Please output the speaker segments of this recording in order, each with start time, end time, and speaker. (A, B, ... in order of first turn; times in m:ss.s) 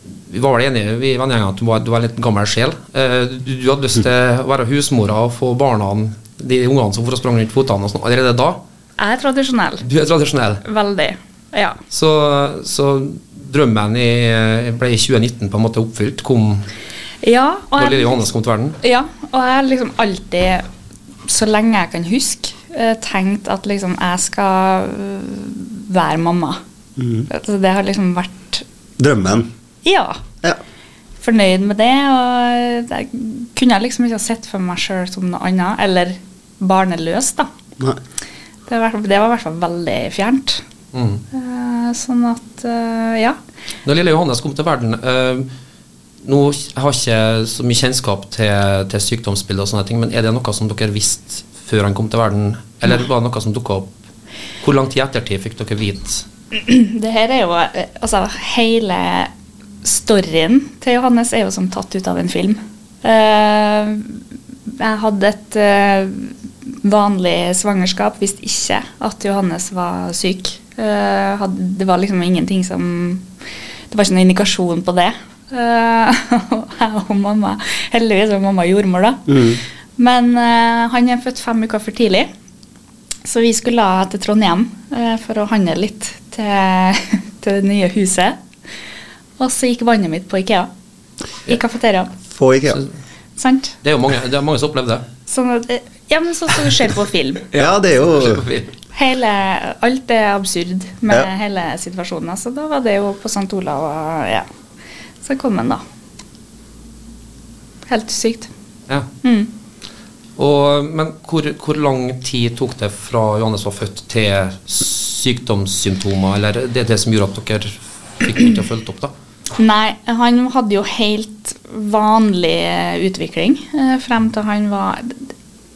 0:00.3-0:08.6 A
0:09.0-0:09.8 B
0:09.8-0:10.6 A
0:10.6-0:11.8 B
0:11.9-0:16.7 A
0:17.2-0:18.2 B
0:17.8-0:18.8 A
0:18.8-0:20.6 B
0:21.3-0:26.6 B
0:27.0-0:27.3 C
0:27.3-0:28.6 B
0:29.0-0:29.5 C
0:29.8-0:30.2 B
0:31.2-0:37.5 B
0:38.7-0:40.6 B
0:40.9-0:41.2 A
0:41.3-0:43.4 B
0:43.8-0:45.5 A
0:46.2-0:53.9 A
0:54.6-0:56.2 A
0:56.5-0:59.3 B
0:59.8-1:13.3 B
1:13.9-1:22.3 B
1:19.3-1:19.6 C
1:23.2-1:28.4 B
1:29.4-1:30.7 B
1:31.4-1:32.1 B
1:32.3-1:32.8 C
1:33.4-1:33.8 B
1:33.8-1:35.1 A
1:35.3-1:37.5 B
1:37.5-1:38.7 A
1:37.6-1:38.4 C
1:38.9-1:44.5 B
1:45.2-1:45.8 B
1:47.9-1:48.5 B
1:49.2-1:49.5 B
1:50.4-1:59.1 A
1:59.6-2:05.3 B